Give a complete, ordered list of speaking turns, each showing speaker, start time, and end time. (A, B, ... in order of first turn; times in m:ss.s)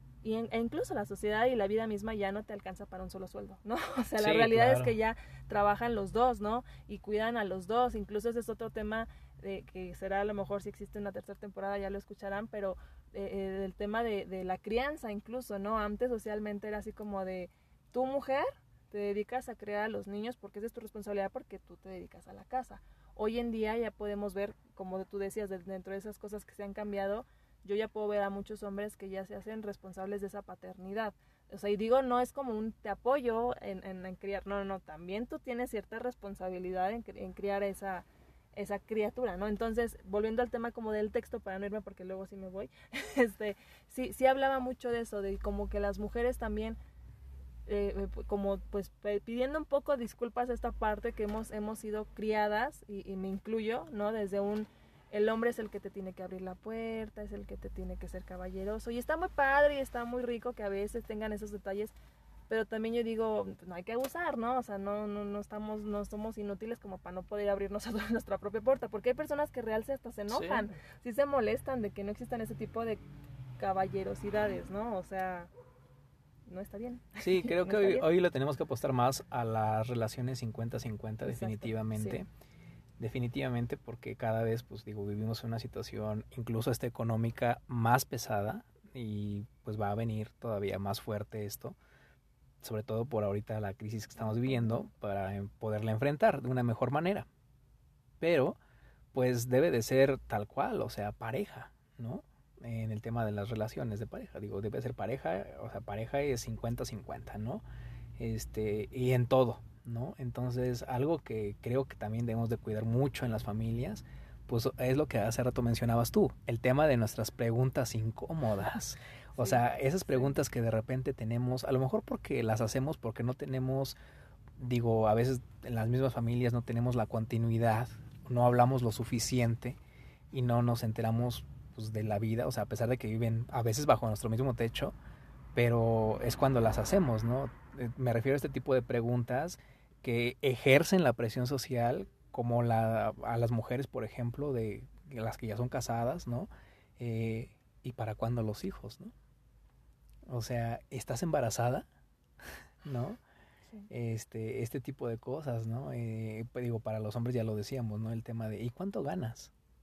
0:00.2-0:46.8 A
0:04.2-0:04.9 B
0:47.7-1:01.9 A
1:02.5-1:13.0 A
1:10.3-1:10.7 B
1:13.6-1:15.5 A
1:16.5-1:18.0 A
1:17.2-1:22.3 B
1:21.2-1:22.2 A
1:23.0-1:31.8 B
1:32.6-1:37.3 B
1:38.2-1:38.6 B
1:39.1-1:47.6 B
1:48.2-2:04.0 B
1:59.3-2:00.3 A
2:04.6-2:09.8 B
2:10.3-2:15.0 B
2:15.5-2:29.1 B
2:30.3-2:31.8 B
2:32.8-2:33.2 B
2:33.9-2:39.5 B